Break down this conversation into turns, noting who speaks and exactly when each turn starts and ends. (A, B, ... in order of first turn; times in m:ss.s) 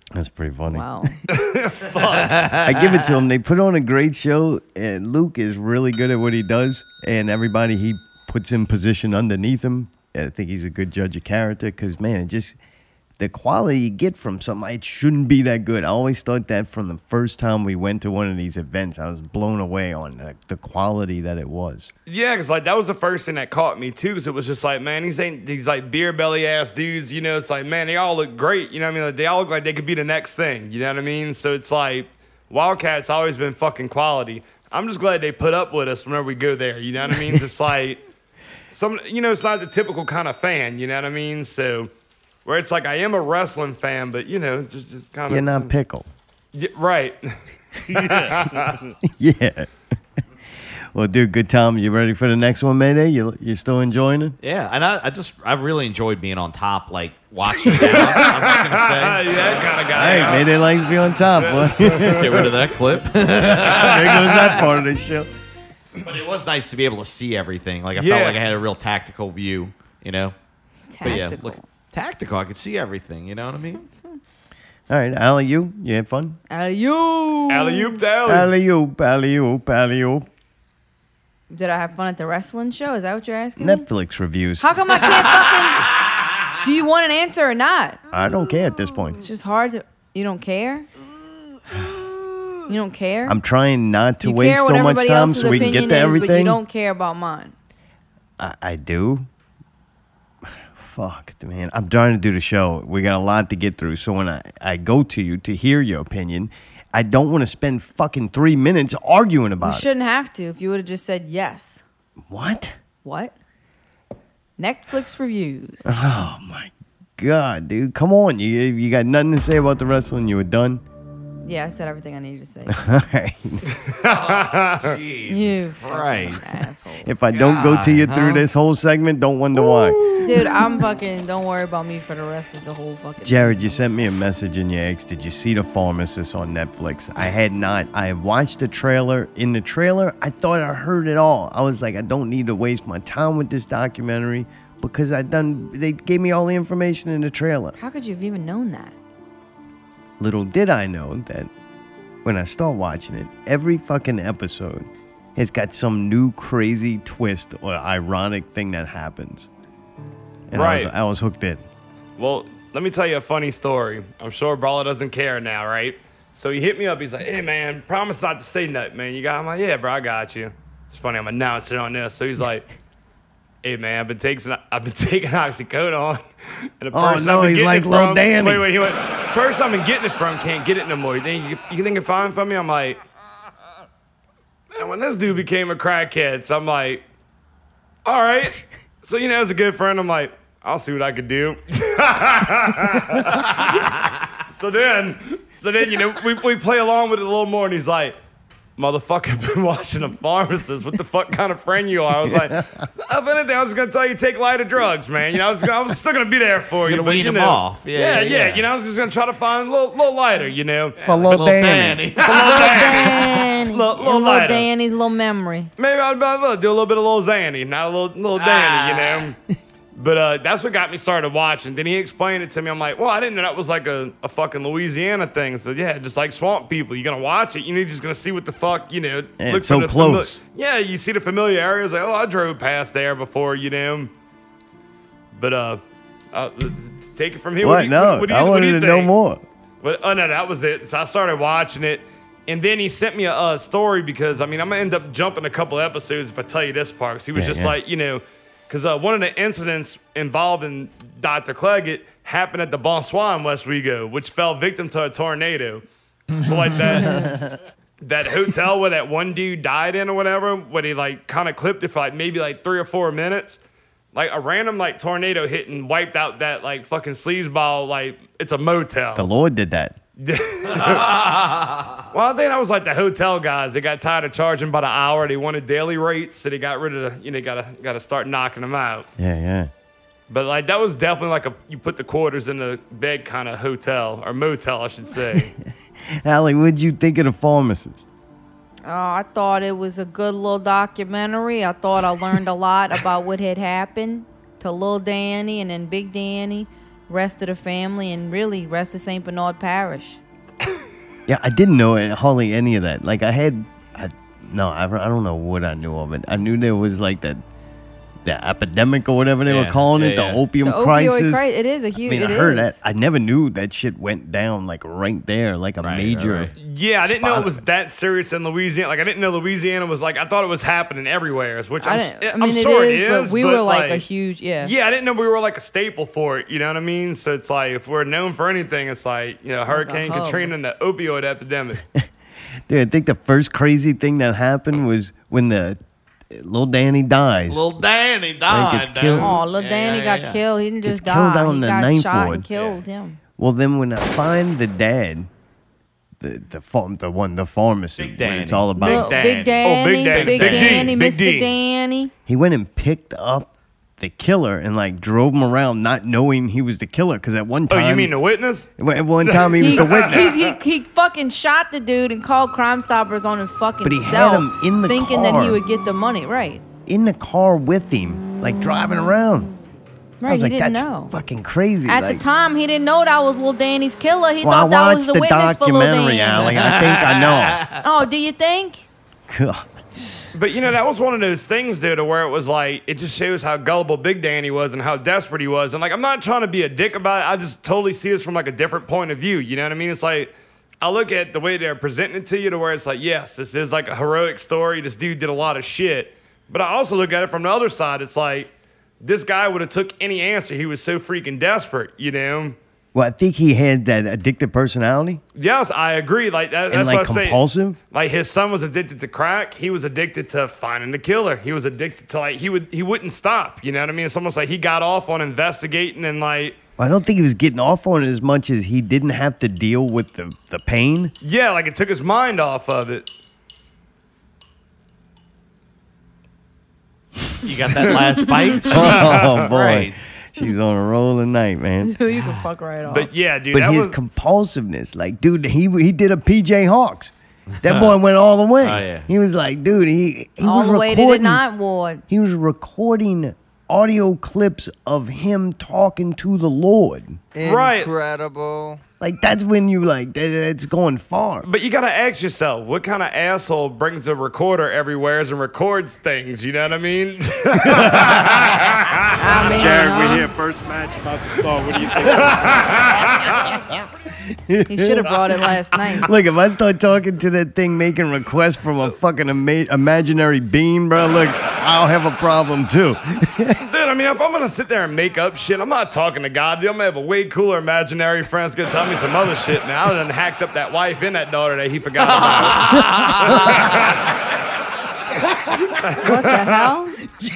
0:00.1-0:01.0 A
0:00.7-0:01.1 B
0:01.3-0:02.5 C
0:02.2-0:02.6 D
0:02.6-0:12.6 A
0:13.2-0:21.9 A
0:22.1-0:38.0 C
0:38.7-0:41.9 C
0:42.4-0:45.7 C
0:45.3-0:46.1 A
0:46.5-0:47.2 C
0:47.9-0:48.9 C
0:47.9-0:48.5 A
0:49.1-0:49.7 A
0:50.9-0:54.4 A
0:54.4-1:00.4 D
0:57.6-1:00.4 C
0:59.9-1:02.5 A
1:01.4-1:02.4 C
1:02.0-1:04.6 D
1:03.4-1:05.3 A
1:03.7-1:04.4 C
1:06.0-1:10.3 D
1:07.9-1:08.4 C
1:10.9-1:11.6 B
1:11.0-1:13.8 D
1:14.9-1:16.4 A
1:16.5-1:18.0 B
1:17.5-1:18.5 C
1:18.2-1:20.2 A
1:21.5-1:23.8 B
1:23.6-1:24.8 A
1:24.6-1:25.9 B
1:26.6-1:28.0 B
1:28.1-1:29.2 A
1:29.2-1:30.9 B
1:32.7-1:33.4 B
1:33.2-1:36.6 A
1:34.2-1:37.5 B
1:38.4-1:39.3 A
1:40.4-1:49.8 A
1:49.6-1:51.8 B
1:52.3-1:52.7 A
1:53.0-1:53.3 B
1:54.6-1:55.9 B
1:55.8-2:00.8 A
2:01.4-2:02.8 B
2:02.7-2:03.6 A
2:03.7-2:05.0 C
2:04.0-2:06.5 D
2:05.3-2:07.2 B
2:07.0-2:10.0 A
2:07.3-2:08.4 D
2:10.2-2:13.8 B
2:13.2-2:27.8 A
2:27.8-2:28.9 B
2:30.2-2:31.5 A
2:32.2-2:39.5 A
2:40.5-2:41.6 A
2:40.5-2:40.9 C
2:42.2-2:52.7 C
2:53.6-2:56.2 C
2:56.8-3:03.0 C
2:56.9-2:58.7 A
3:04.7-3:07.0 C
3:08.0-3:13.8 C
3:14.5-3:18.2 C
3:18.8-3:31.0 C
3:26.8-3:28.6 D
3:31.0-3:33.4 D
3:31.0-3:32.0 A
3:32.2-3:34.7 C
3:32.5-3:35.7 B
3:35.8-3:39.4 C
3:38.3-3:39.3 D
3:39.9-3:54.1 C
3:49.4-3:50.4 A
3:55.3-3:55.8 C
3:56.3-3:59.1 C
3:57.6-3:59.4 A
3:59.8-4:15.8 C
4:07.3-4:07.7 A
4:16.4-4:17.3 C
4:18.0-4:23.6 C
4:24.1-4:29.3 C
4:29.2-4:30.0 A
4:30.2-4:31.2 C
4:30.7-4:31.8 D
4:32.1-4:39.1 C
4:39.2-4:39.7 A
4:40.3-4:45.5 C
4:46.1-4:48.1 A
4:48.8-5:00.2 B
5:01.3-5:07.4 A
5:08.2-5:11.4 A
5:09.4-5:10.4 D
5:10.6-5:12.8 B
5:12.0-5:16.5 A
5:15.8-5:16.5 D
5:16.6-5:24.0 C
5:17.1-5:17.6 A
5:21.8-5:24.7 B
5:24.6-5:31.8 C
5:29.7-5:30.5 B
5:32.7-5:35.8 A
5:36.3-5:37.7 A
5:37.5-5:40.4 D
5:38.5-5:39.4 A
5:39.2-5:43.2 B
5:40.8-5:42.4 A
5:42.5-5:42.8 D
5:43.4-5:45.3 A
5:46.2-5:49.2 A
5:48.0-5:50.9 D
5:48.8-5:52.1 B
5:49.6-5:51.5 C
5:52.2-5:58.1 A
5:57.7-5:58.7 C
5:58.8-6:00.3 A
5:59.2-6:00.5 C
5:59.6-6:06.6 B
6:03.8-6:05.6 A
6:06.8-6:09.5 A
6:10.2-6:11.1 B
6:10.2-6:12.2 A
6:11.8-6:16.5 B
6:14.4-6:17.6 A
6:16.4-6:17.7 D
6:17.8-6:18.8 B
6:19.3-6:19.7 A
6:20.3-6:42.6 C
6:42.9-6:45.2 A
6:45.4-6:47.4 C
6:46.7-6:47.8 A
6:47.9-6:56.6 C
6:56.8-7:01.1 A
7:01.2-7:03.1 C
7:07.4-7:10.1 D
7:08.6-7:11.9 A
7:09.0-7:09.5 C
7:11.8-7:13.1 B
7:12.8-7:14.0 C
7:13.5-7:21.4 A
7:17.6-7:17.9 D
7:18.6-7:19.1 D
7:20.4-7:22.0 B
7:22.1-7:27.2 A
7:27.4-7:28.8 D
7:27.4-7:27.9 C
7:29.0-7:31.4 A
7:31.4-7:39.4 C
7:39.2-7:40.3 B
7:39.5-7:43.0 E
7:42.0-7:43.5 C
7:44.3-7:45.1 A
7:44.7-7:46.1 B
7:46.0-7:53.6 A
7:53.6-8:04.0 C
8:02.0-8:03.7 D
8:05.8-8:06.6 C
8:06.0-8:07.0 B